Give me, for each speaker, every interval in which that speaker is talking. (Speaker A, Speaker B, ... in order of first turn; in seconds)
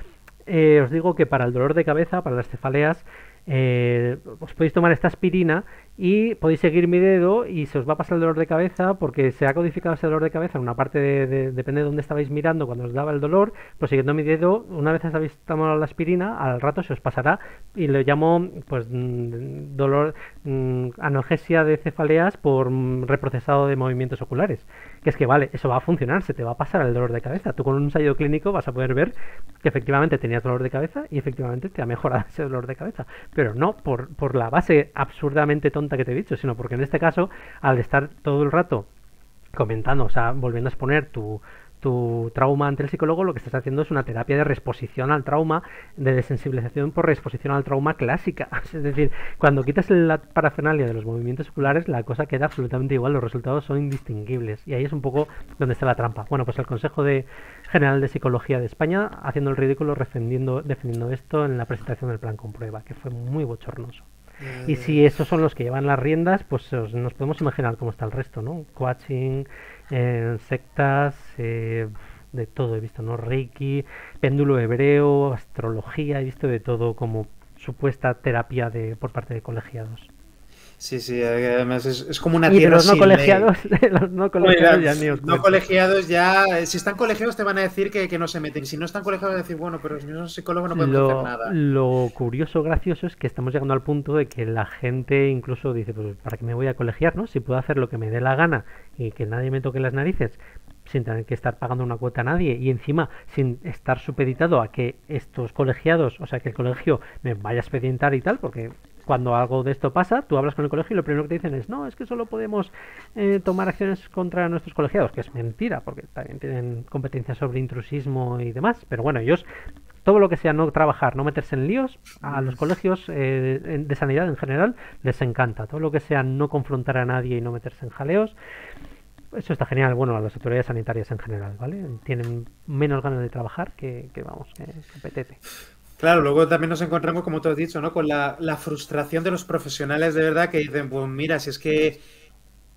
Speaker A: 0.5-38.9, 39.5-64.0, 64.7-80.1, 82.5-85.6, 90.7-119.4, 120.0-128.3, 129.3-135.4
Speaker B: 64.4-65.0, 80.8-83.5, 84.4-91.5, 122.2-122.6, 136.0-142.0